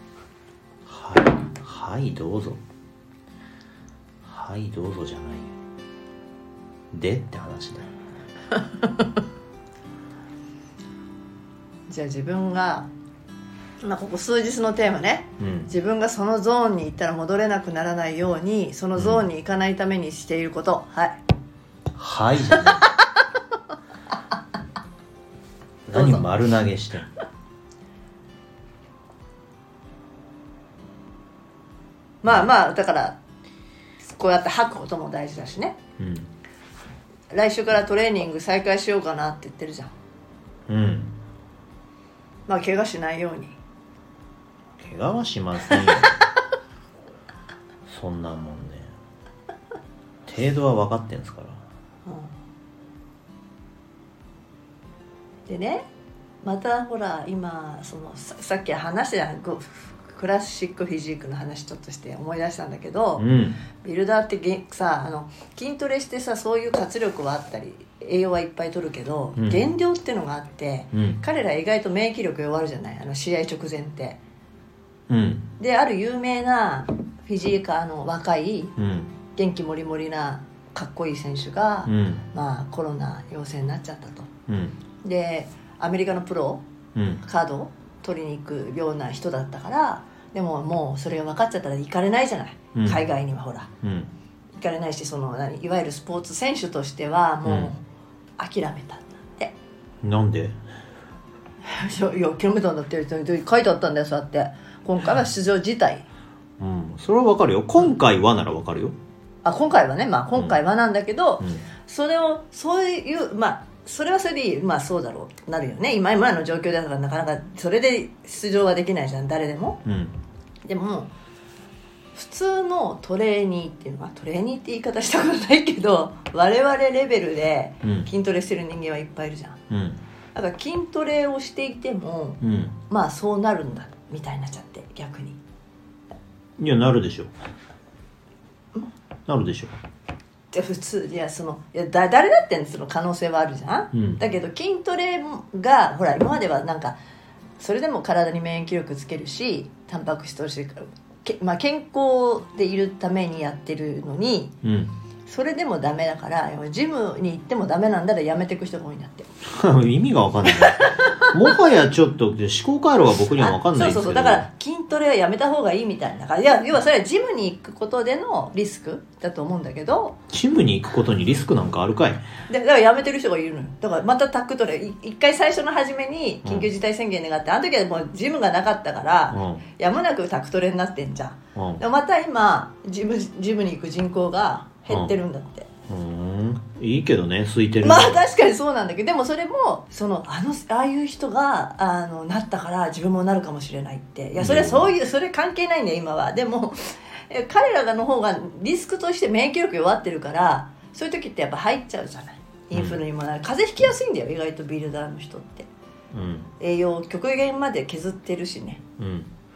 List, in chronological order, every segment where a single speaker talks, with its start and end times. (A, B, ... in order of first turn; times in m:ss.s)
0:00.8-0:02.6 A
0:04.2-0:05.5 A
0:06.9-0:07.9 A
0:08.5-0:09.1 B
0:11.9-0:12.9 B
0:13.8-0:21.2 B
0:15.4-0:15.7 A
0:19.0-0:19.2 A
0:21.9-0:22.9 A
0:22.6-0:23.0 B
0:25.9-0:27.1 A
0:25.9-0:26.2 B
0:32.2-0:33.2 B
0:34.1-0:35.8 B
0:36.0-0:36.3 A
0:37.3-0:39.9 B
0:40.7-0:41.1 A
0:42.5-0:43.6 B
0:44.8-0:46.2 A
0:45.8-0:46.0 B
0:47.8-0:48.9 A
0:50.2-0:51.6 A
0:52.0-0:52.3 B
0:55.4-0:55.8 B
0:56.4-1:03.3 B
1:03.2-1:03.6 A
1:03.8-1:14.2 B
1:09.4-1:09.6 A
1:10.9-1:11.2 A
1:15.1-1:15.5 A
1:15.6-1:18.8 B
1:18.8-1:19.1 A
1:19.3-1:24.3 B
1:21.8-1:22.2 A
1:24.5-1:24.8 A
1:25.0-1:26.6 B
1:26.9-1:27.2 A
1:27.2-1:33.7 B
1:32.7-1:33.0 A
1:33.8-1:34.1 A
1:34.6-1:37.8 B
1:37.4-1:37.7 A
1:38.4-1:39.5 B
1:40.0-1:40.6 A
1:41.6-1:46.0 B
1:46.6-1:49.0 A
1:49.4-1:59.8 B
1:59.8-2:00.2 A
2:00.6-2:01.1 B
2:02.1-2:09.6 B
2:07.8-2:08.1 A
2:09.7-2:10.0 A
2:10.3-2:15.4 B
2:12.4-2:12.7 A
2:16.6-2:17.3 A
2:19.3-2:19.8 A
2:20.5-2:27.0 B
2:23.9-2:24.2 A
2:27.6-2:34.6 B
2:34.6-2:34.9 A
2:35.3-2:39.3 B
2:39.4-2:44.4 A
2:40.5-2:41.3 B
2:43.4-2:50.2 B
2:50.3-2:52.2 A
2:52.5-3:05.7 B
2:56.4-2:56.7 A
2:59.3-2:59.6 A
3:01.6-3:01.8 A
3:05.9-3:08.2 A
3:07.8-3:25.7 B
3:14.4-3:14.9 A
3:22.7-3:23.0 A
3:26.1-3:26.5 A
3:26.6-3:28.8 B
3:29.0-3:29.3 A